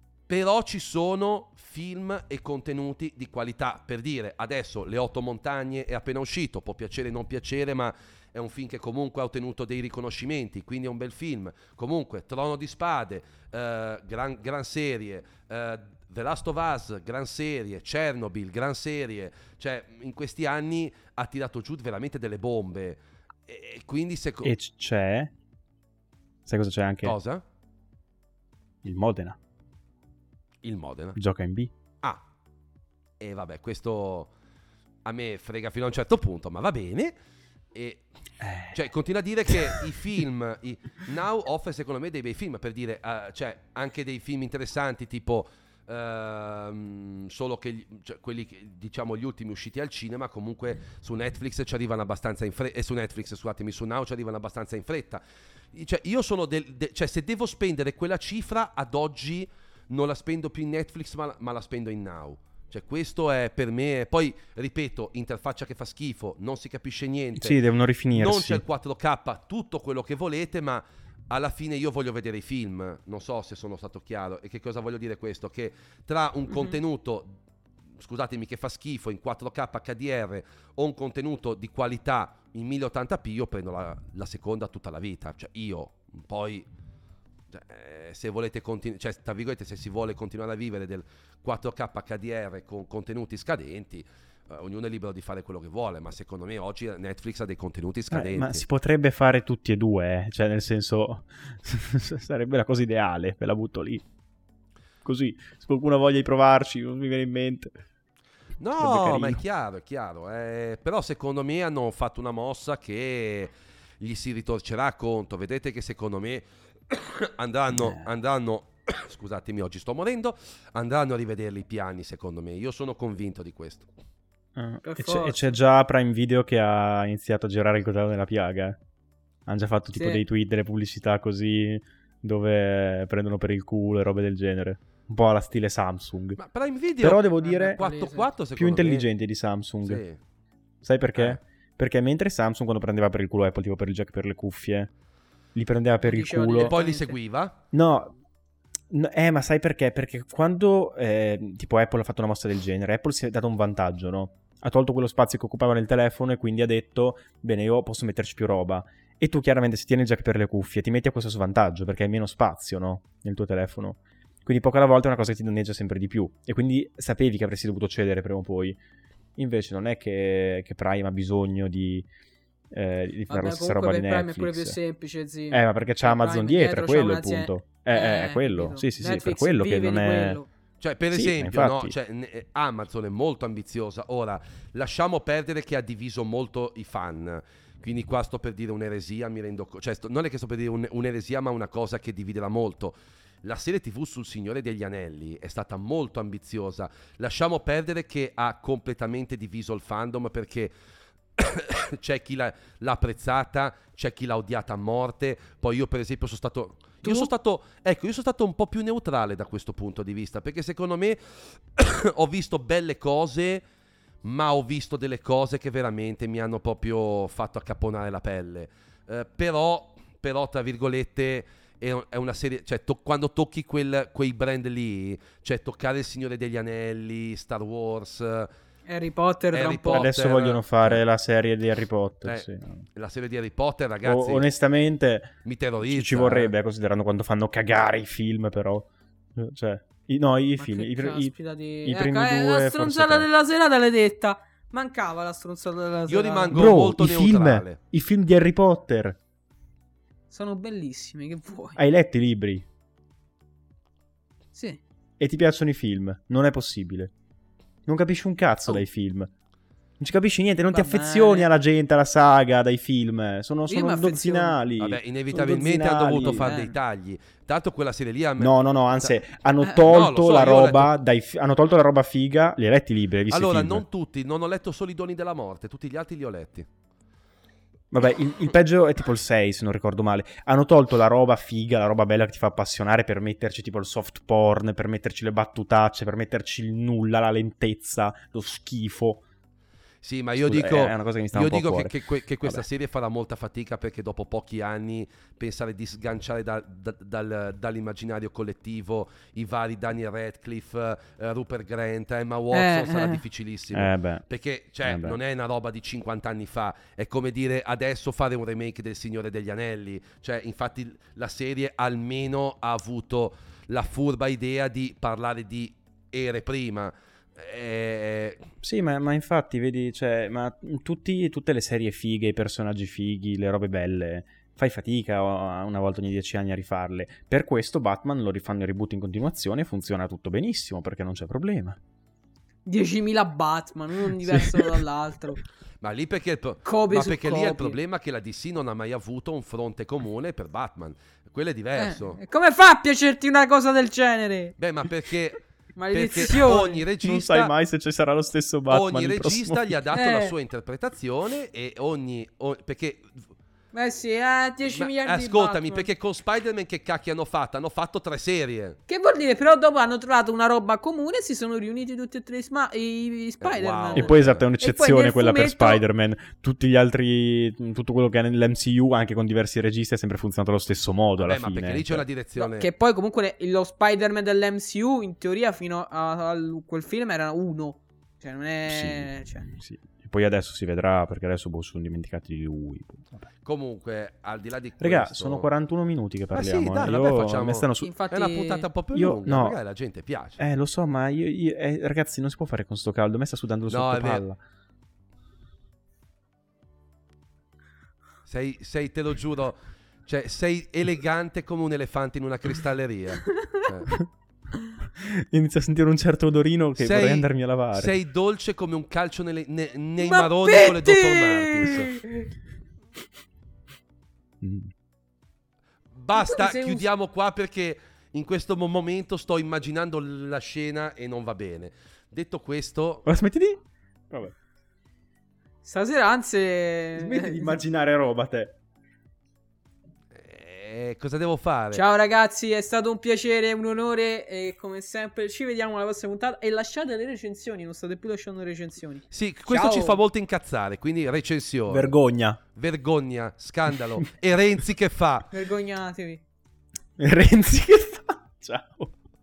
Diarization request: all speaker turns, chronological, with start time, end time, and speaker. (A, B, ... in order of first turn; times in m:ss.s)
0:00.3-0:24.5 A
0:24.4-0:25.3 B
0:26.4-0:27.2 B
0:27.0-0:27.4 A
0:28.8-0:29.4 B
0:30.6-0:31.2 A
0:31.2-0:31.7 B
0:33.2-0:34.3 A
0:35.0-0:37.1 A
0:37.7-0:38.0 A
0:38.4-0:38.8 B
0:38.7-0:55.2 A
0:39.5-0:39.8 B
0:55.7-1:07.6 A
1:07.4-1:08.6 B
1:08.1-1:17.3 A
1:18.0-1:26.6 A
1:27.5-1:38.6 A
1:38.1-1:44.0 B
1:45.0-1:47.8 B
1:48.6-2:03.9 A
1:48.8-1:49.4 B
1:57.7-1:58.1 B
2:04.6-2:08.8 B
2:04.8-2:05.6 C
2:09.4-2:16.4 B
2:09.9-2:10.2 C
2:16.4-2:19.0 A
2:17.0-2:17.8 B
2:17.4-2:18.3 C
2:18.6-2:20.0 B
2:19.8-2:20.2 A
2:20.8-2:24.9 B
2:25.5-2:26.7 B
2:26.0-2:27.2 C
2:26.6-2:27.6 A
2:27.7-2:28.1 B
2:28.9-2:48.8 B
2:49.4-2:52.0 B
2:52.7-2:54.8 B
2:53.3-3:00.5 C
2:55.5-3:00.4 B
3:00.8-3:20.7 A
3:01.1-3:01.9 B
3:21.4-3:33.6 A
3:27.0-3:27.3 C
3:34.2-3:48.5 A
3:48.9-3:50.1 C
3:49.5-3:51.0 A
3:49.9-3:52.8 B
3:52.2-3:54.4 A
3:54.0-4:01.3 B
3:55.4-3:56.5 A
4:00.6-4:06.6 C
4:01.8-4:03.3 B
4:06.1-4:07.8 A
4:06.5-4:09.2 B
4:10.3-4:11.8 C
4:11.8-4:12.6 B
4:14.5-4:14.8 C
4:15.2-4:17.1 B
4:17.8-4:19.3 B
4:20.0-4:26.5 B
4:20.7-4:21.5 C
4:23.7-4:24.6 C
4:24.8-4:29.1 A
4:26.3-4:26.8 C
4:28.4-4:33.8 B
4:29.6-4:30.2 C
4:29.9-4:30.9 A
4:33.3-4:36.7 A
4:37.9-4:49.2 B
4:50.0-5:18.4 A
4:50.4-4:51.9 B
5:02.5-5:03.2 C
5:03.7-5:04.2 B
5:04.8-5:05.2 B
5:18.6-5:31.8 B
5:32.6-5:35.4 C
5:34.2-5:34.8 B
5:35.8-5:42.2 A
5:36.6-5:37.8 C
5:41.8-5:44.5 C
5:44.6-5:47.5 A
5:45.8-5:46.8 C
5:47.0-5:49.8 B
5:48.7-5:53.2 A
5:49.9-5:50.3 C
5:53.7-5:55.9 C
5:54.7-5:58.8 A
5:58.9-6:05.8 C
6:03.4-6:04.4 A
6:03.9-6:12.0 B
6:11.2-6:12.7 A
6:12.4-6:19.5 C
6:18.7-6:23.3 B
6:23.4-6:25.5 A
6:24.8-6:27.9 B
6:26.3-6:30.4 A
6:27.8-6:28.7 C
6:28.9-6:29.6 B
6:30.4-6:34.4 B
6:33.7-6:34.2 A
6:38.2-6:44.0 A
6:45.0-6:47.9 B
6:46.8-6:51.9 A
6:50.0-6:52.2 C
6:54.4-6:54.7 B
6:55.9-7:03.0 A
6:56.1-6:56.8 C
7:03.0-7:04.3 B
7:05.6-7:07.5 C
7:06.9-7:08.6 B
7:10.1-7:11.8 A
7:11.7-7:20.0 C
7:19.1-7:21.9 A
7:21.7-7:22.4 B
7:22.5-7:25.3 A
7:25.3-7:26.2 C
7:27.0-7:28.9 B